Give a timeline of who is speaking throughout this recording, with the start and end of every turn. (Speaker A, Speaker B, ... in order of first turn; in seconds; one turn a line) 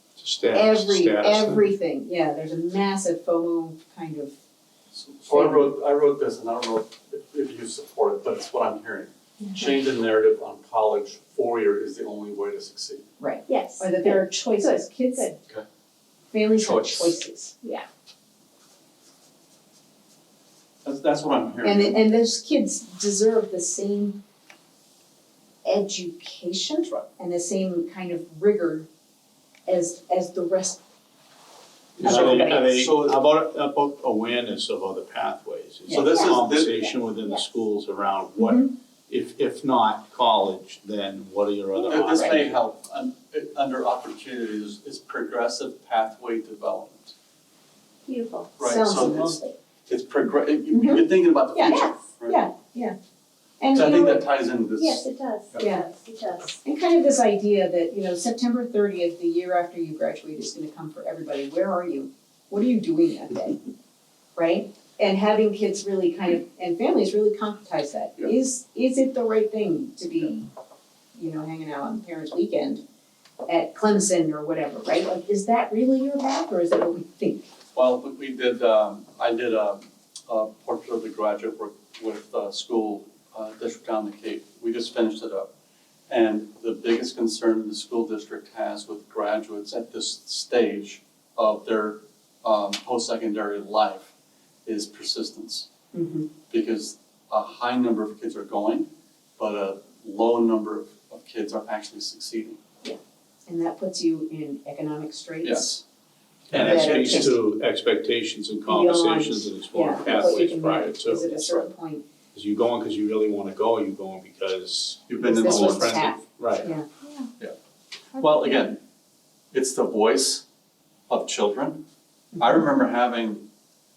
Speaker A: 0.2-1.7
Speaker B: 0.5-4.3
Speaker C: 4.9-13.1
Speaker B: 5.3-5.7
Speaker D: 9.4-9.8
Speaker B: 13.2-15.3
Speaker D: 13.5-15.4
Speaker B: 16.3-17.5
Speaker C: 16.5-17.2
Speaker C: 20.8-22.0
Speaker B: 21.6-24.2
Speaker B: 25.6-28.9
Speaker B: 29.7-30.8
Speaker C: 32.0-33.2
Speaker A: 32.0-42.6
Speaker B: 32.0-32.6
Speaker B: 35.9-36.1
Speaker C: 35.9-36.9
Speaker B: 38.4-38.7
Speaker C: 41.7-47.1
Speaker D: 48.1-48.5
Speaker C: 48.6-52.5
Speaker B: 48.6-49.6
Speaker B: 50.7-53.0
Speaker D: 51.6-52.0
Speaker B: 53.6-54.2
Speaker C: 53.7-55.6
Speaker D: 54.7-56.6
Speaker B: 55.6-55.9
Speaker B: 56.6-63.6
Speaker B: 64.3-70.5
Speaker B: 71.1-72.8
Speaker B: 73.5-77.5
Speaker C: 77.8-85.5
Speaker C: 86.1-94.1
Speaker C: 94.7-95.7
Speaker B: 95.9-96.3
Speaker C: 96.5-102.6
Speaker B: 102.8-105.7
Speaker C: 105.4-105.8
Speaker C: 106.5-107.4
Speaker A: 106.5-111.4
Speaker B: 106.5-107.4
Speaker B: 108.7-112.0
Speaker A: 112.3-116.7
Speaker C: 115.1-116.2
Speaker B: 115.2-116.9
Speaker D: 117.0-117.3
Speaker D: 118.1-118.7
Speaker C: 118.2-118.8
Speaker C: 119.5-120.5
Speaker C: 121.1-121.8
Speaker B: 122.3-122.7
Speaker C: 122.4-123.5